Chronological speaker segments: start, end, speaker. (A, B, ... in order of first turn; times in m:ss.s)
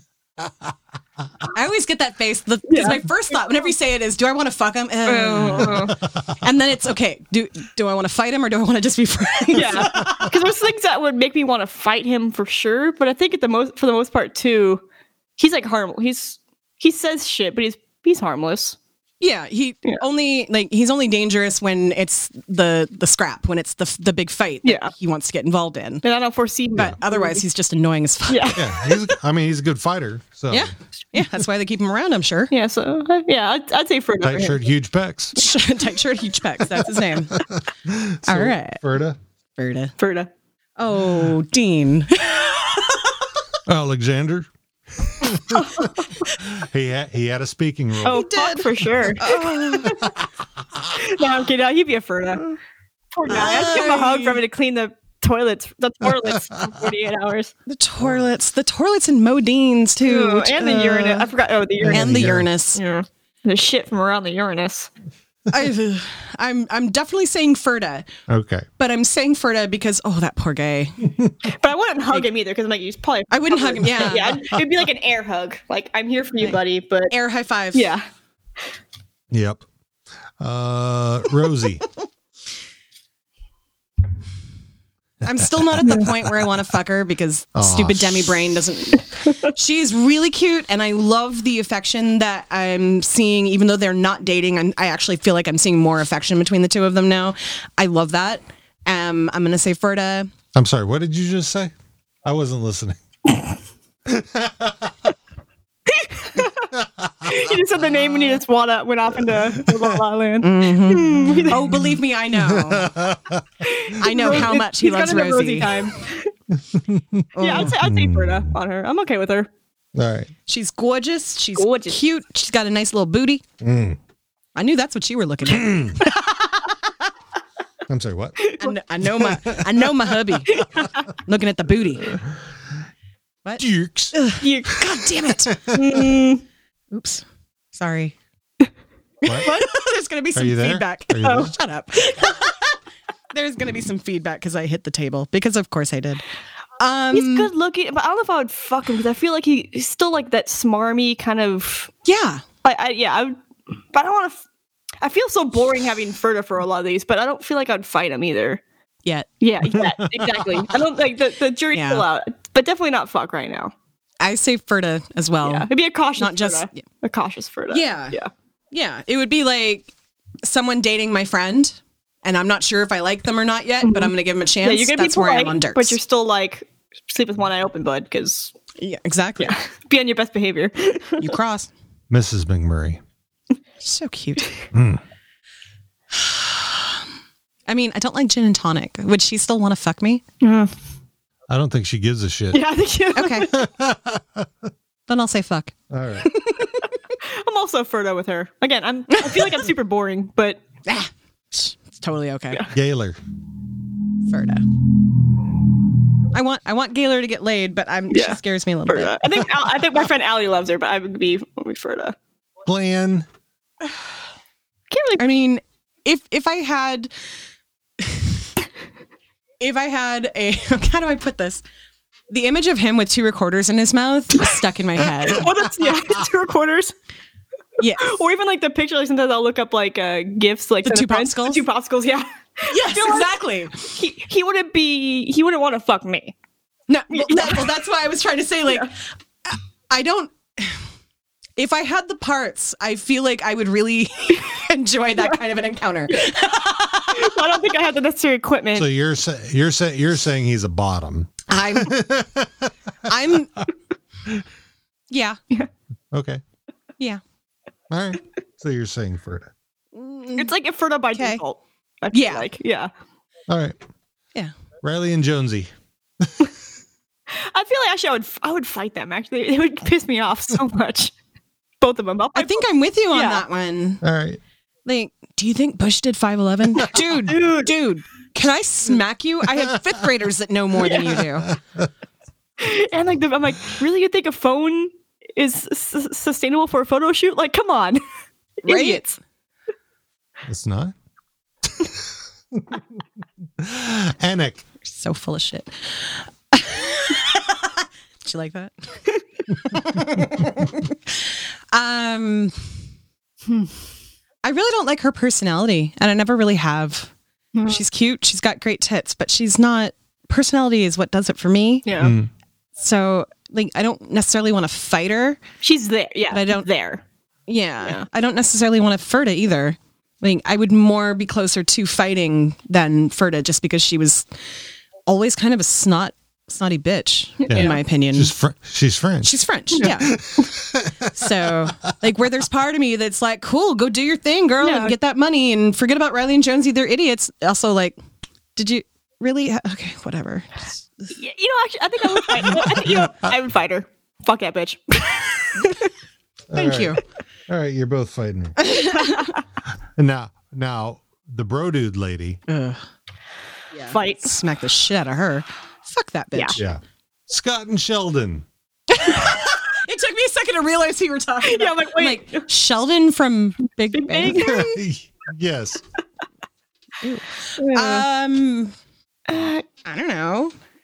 0:00.4-0:00.7 A
0:01.5-0:10.3 B
0:02.7-0:03.6 C
0:05.0-0:06.0 C
0:09.5-0:14.8 C
0:15.4-0:18.8 C
0:19.2-0:26.0 B
0:24.6-0:24.9 C
0:26.0-0:27.4 C
0:26.7-0:28.6 B
0:28.3-0:28.7 C
0:28.5-0:30.7 A
0:30.5-0:32.5 B
0:32.5-0:34.6 C
0:34.2-0:35.4 A
0:35.3-0:37.4 B
0:37.3-0:39.2 A
0:38.3-0:38.8 B
0:39.6-0:39.9 B
0:40.0-0:40.3 C
0:40.8-0:42.9 B
0:43.7-0:45.9 A
0:45.5-0:46.1 C
0:46.4-0:48.2 A
0:48.0-0:50.1 C
0:48.0-0:50.0 B
0:49.8-0:50.1 A
0:50.9-0:52.6 C
0:53.1-0:57.5 C
0:53.3-0:54.4 B
0:57.7-1:01.3 B
1:00.0-1:04.9 C
1:01.8-1:02.5 A
1:01.9-1:02.8 B
1:05.5-1:08.1 B
1:08.3-1:08.7 A
1:08.8-1:11.0 B
1:11.5-1:17.1 C
1:13.3-1:14.4 B
1:17.1-1:17.9 B
1:17.7-1:18.0 C
1:19.3-1:19.6 A
1:20.4-1:21.8 A
1:25.2-1:40.3 B
1:25.4-1:26.3 A
1:27.5-1:28.4 A
1:40.5-1:41.7 A
1:42.2-1:43.5 A
1:44.1-1:45.1 A
1:45.9-1:46.7 C
1:47.2-1:51.6 C
1:49.5-1:49.9 A
1:50.4-1:53.0 B
1:52.3-1:54.4 A
1:53.7-1:56.3 C
1:54.0-1:55.7 B
1:56.7-1:58.6 A
1:57.4-1:57.7 B
1:57.4-1:59.5 C
1:59.9-2:00.3 A
2:00.5-2:03.4 B
2:01.6-2:02.0 C
2:03.6-2:04.0 A
2:04.6-2:06.1 B
2:05.5-2:06.0 A
2:06.0-2:06.3 C
2:07.9-2:08.4 A
2:08.4-2:08.6 C
2:08.6-2:10.6 B
2:09.2-2:09.8 A
2:10.5-2:11.0 C
2:11.2-2:12.2 B
2:13.4-2:15.6 B
2:13.6-2:14.3 A
2:14.4-2:14.8 C
2:15.7-2:16.0 A
2:15.7-2:16.4 C
2:16.9-2:18.2 B
2:19.2-2:22.8 B
2:19.2-2:19.5 A
2:19.4-2:19.7 C
2:20.3-2:21.5 A
2:21.2-2:21.5 C
2:23.3-2:26.2 B
2:26.8-2:27.5 B
2:27.1-2:31.9 C
2:32.0-2:32.4 B
2:32.6-2:33.4 C
2:33.9-2:34.4 C
2:35.0-2:38.6 C
2:39.4-2:43.7 C
2:39.8-2:40.5 A
2:41.7-2:42.0 B
2:44.2-2:46.8 B
2:45.4-2:48.3 C
2:47.7-2:48.2 B
2:48.7-2:49.9 B
2:50.4-2:56.0 B
2:53.8-2:58.5 C
2:58.8-2:59.6 B
2:59.4-3:01.3 C
3:01.2-3:01.7 B
3:02.1-3:03.0 A
3:03.8-3:04.5 B
3:04.7-3:05.0 A
3:06.2-3:06.9 B
3:07.7-3:10.2 B
3:10.4-3:10.7 C
3:11.5-3:12.6 A
3:12.5-3:13.6 C
3:13.1-3:13.5 B
3:13.5-3:14.5 A
3:15.1-3:15.7 B
3:15.9-3:16.3 A
3:16.2-3:16.9 B
3:17.2-3:20.6 C
3:19.1-3:19.5 B
3:20.8-3:22.6 B
3:22.7-3:23.2 A
3:24.2-3:24.6 B
3:26.3-3:29.2 B
3:28.1-3:32.2 C
3:32.6-3:33.3 A
3:34.9-3:35.2 C
3:35.2-3:37.1 B
3:38.0-3:38.3 B
3:39.6-3:41.6 B
3:42.3-3:45.5 B
3:45.2-3:46.9 C
3:47.8-3:48.1 B
3:48.0-3:53.3 C
3:50.8-3:51.6 B
3:52.7-3:53.8 B
3:53.8-3:56.3 C
3:56.9-3:58.9 B
3:57.1-3:57.7 C
3:59.5-4:00.8 B
4:01.6-4:07.3 B
4:06.1-4:06.5 C
4:07.1-4:08.9 C
4:08.7-4:12.7 A
4:11.5-4:12.0 B
4:13.1-4:13.6 B
4:15.1-4:15.4 B
4:16.1-4:16.4 A
4:17.9-4:19.5 A
4:19.9-4:20.5 B
4:20.4-4:22.9 C
4:21.1-4:21.4 B
4:22.1-4:22.4 B
4:23.5-4:23.8 A
4:24.8-4:26.5 A
4:27.3-4:31.1 C
4:31.8-4:33.4 C
4:32.3-4:34.0 B
4:34.0-4:34.4 A
4:34.8-4:41.5 B
4:37.2-4:37.8 C
4:40.8-4:41.2 C
4:42.6-4:48.0 C
4:48.6-4:49.2 C
4:48.6-4:49.0 B
4:50.4-4:50.9 A
4:52.5-4:52.8 A
4:53.6-4:54.6 A
4:54.8-4:57.7 B
4:58.2-4:59.0 B
4:59.6-5:02.6 B
5:04.4-5:07.1 B
5:07.5-5:07.8 C
5:07.7-5:11.9 B
5:11.8-5:12.1 C
5:12.0-5:12.3 A
5:12.8-5:15.4 B
5:15.6-5:17.0 C
5:16.3-5:16.7 B
5:17.5-5:24.3 B
5:25.0-5:28.3 B
5:27.4-5:27.8 C
5:27.5-5:31.2 A
5:29.2-5:30.1 B
5:31.1-5:38.0 B
5:34.6-5:35.0 C
5:38.6-5:41.1 B
5:41.1-5:45.9 C
5:46.5-5:48.7 A
5:46.5-5:47.0 B
5:48.6-5:49.3 B
5:49.0-5:49.3 C
5:50.0-5:52.4 A
5:52.5-5:52.8 B
5:53.7-5:56.6 B
5:53.9-5:54.3 C
5:56.6-5:58.4 A
5:58.9-6:04.8 B
6:01.4-6:02.5 C
6:03.9-6:04.7 C
6:04.4-6:05.8 A
6:07.0-6:08.7 B
6:07.6-6:08.1 C
6:09.3-6:09.6 C
6:09.8-6:10.5 B